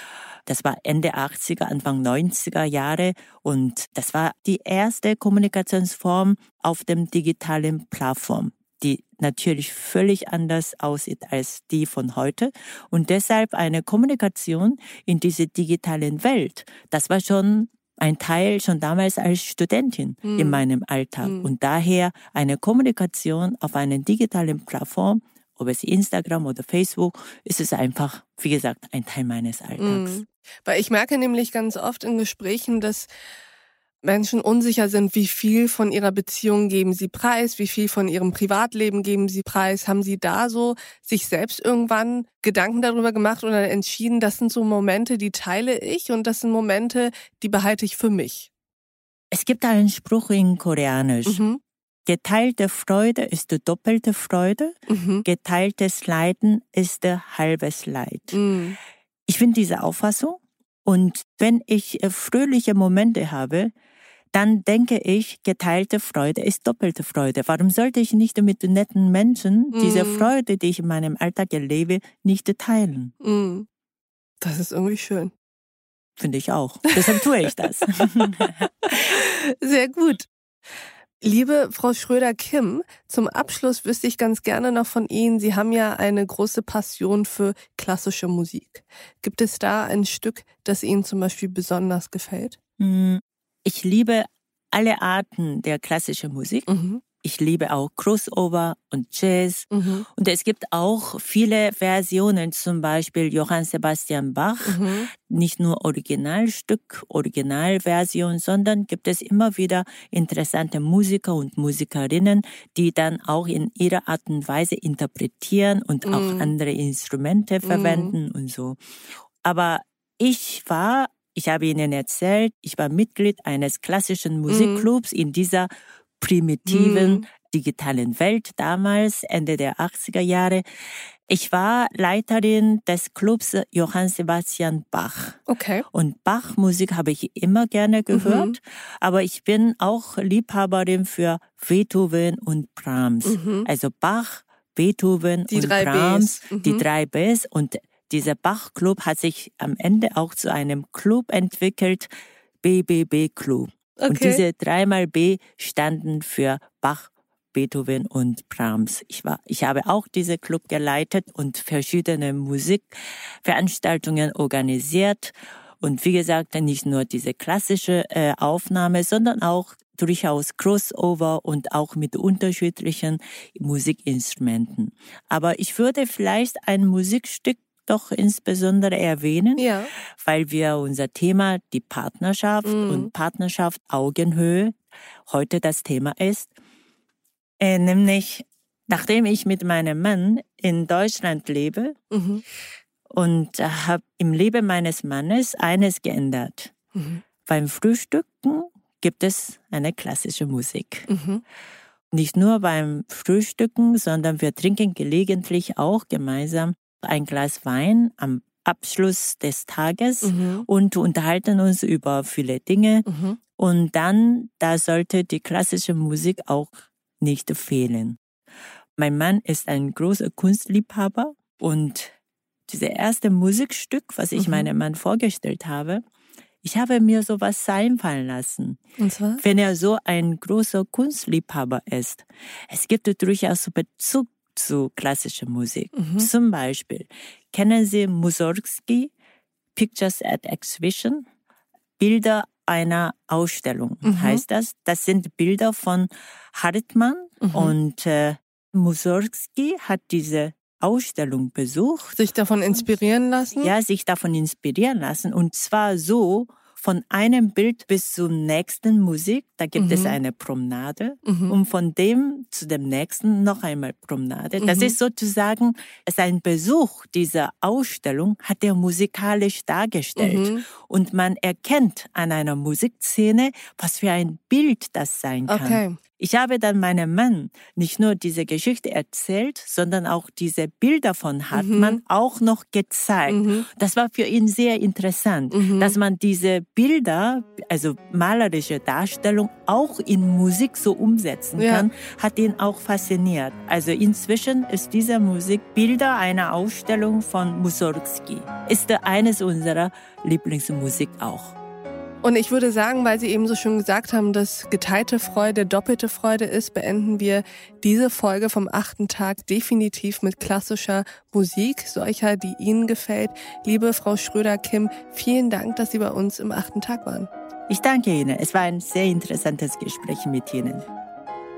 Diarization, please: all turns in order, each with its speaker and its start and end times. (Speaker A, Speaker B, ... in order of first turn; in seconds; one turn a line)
Speaker A: 0.5-30.2
Speaker B: 20.2-20.6
Speaker B: 21.2-21.5
Speaker B: 29.8-33.1
Speaker B: 34.0-48.5
Speaker A: 49.3-51.4
Speaker B: 51.3-51.6
Speaker A: 52.1-58.4
Speaker B: 54.9-55.3
Speaker B: 58.3-58.8
Speaker A: 59.3-63.7
Speaker A: 64.3-73.1
Speaker B: 69.7-70.3
Speaker B: 73.2-73.7
Speaker B: 74.4-75.3
Speaker A: 76.2-79.2
Speaker B: 76.9-80.3
Speaker B: 81.2-92.6
Speaker A: 92.8-96.7
Speaker B: 96.7-97.0
Speaker A: 97.2-118.8
Speaker B: 99.7-100.1
Speaker B: 104.6-105.1
Speaker B: 116.1-116.5
Speaker B: 117.6-118.2
Speaker A: 119.4-130.6
Speaker B: 124.5-124.9
Speaker B: 126.7-127.3
Speaker A: 131.3-152.1
Speaker B: 135.5-135.8
Speaker B: 138.1-138.6
Speaker B: 143.2-143.7
Speaker B: 145.5-146.8
Speaker A: 152.6-186.5
Speaker B: 154.0-154.4
Speaker B: 179.6-179.9
Speaker B: 182.7-183.1
Speaker A: 187.6-192.0
Speaker B: 192.1-192.4
Speaker A: 193.1-196.7
Speaker B: 196.9-197.2
Speaker A: 197.5-201.1
Speaker B: 201.1-201.4
Speaker A: 202.1-213.1
Speaker B: 210.2-210.7
Speaker B: 213.1-213.4
Speaker A: 213.6-218.2
Speaker A: 219.0-222.1
Speaker A: 222.7-226.0
Speaker B: 224.4-224.7
Speaker A: 226.6-228.8
Speaker B: 229.0-229.4
Speaker A: 229.4-239.1
Speaker B: 235.9-236.3
Speaker A: 239.8-241.3
Speaker A: 242.0-252.2
Speaker B: 244.0-244.4
Speaker B: 247.4-247.8
Speaker B: 252.2-253.7
Speaker A: 253.6-301.6
Speaker B: 259.8-260.2
Speaker B: 261.2-261.6
Speaker B: 264.6-264.9
Speaker B: 270.2-270.7
Speaker B: 275.5-276.0
Speaker B: 281.5-282.0
Speaker B: 283.3-283.7
Speaker B: 285.5-285.9
Speaker B: 291.6-291.9
Speaker B: 302.2-317.3
Speaker A: 317.7-320.9